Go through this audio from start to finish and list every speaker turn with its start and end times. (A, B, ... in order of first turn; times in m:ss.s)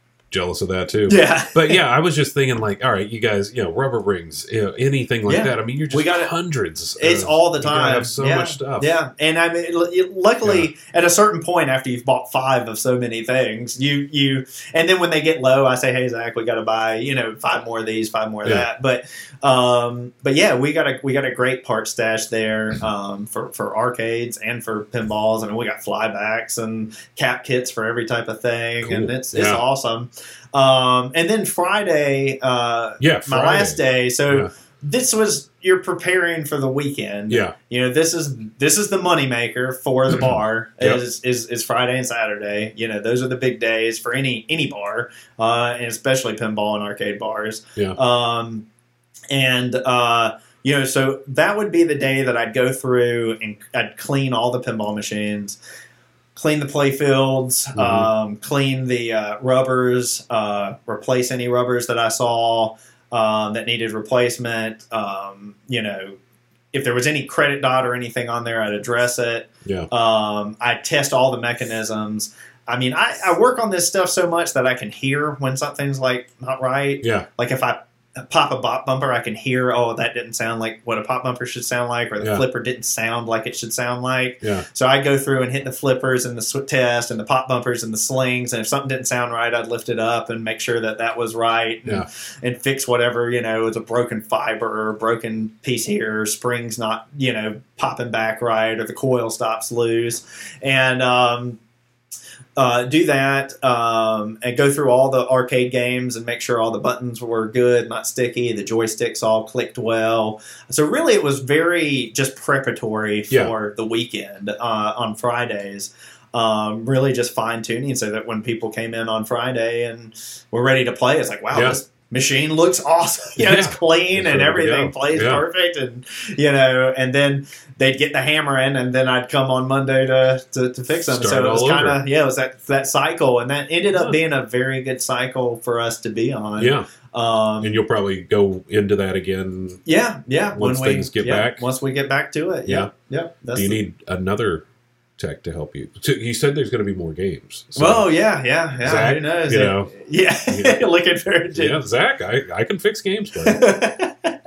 0:00.3-0:08.9 A
0:01.1-0:01.8 B
0:05.3-0:06.3 B
0:07.0-0:48.6 B
0:28.8-0:29.6 A
0:33.0-0:34.5 A
0:40.1-0:41.0 A
0:49.3-0:55.6 B
0:56.4-1:06.2 B
0:57.8-0:58.1 A
1:06.7-1:41.6 B
1:42.6-2:17.8 B
2:01.5-2:01.8 A
2:03.4-2:05.4 A
2:11.0-2:12.0 A
2:16.6-2:16.9 A
2:17.6-2:19.8 A
2:19.9-2:23.8 B
2:20.6-2:21.6 A
2:23.5-2:24.6 A
2:25.2-2:28.1 A
2:27.8-2:31.8 B
2:28.8-2:29.9 A
2:30.5-2:30.8 A
2:31.6-2:33.6 A
2:33.4-2:34.4 B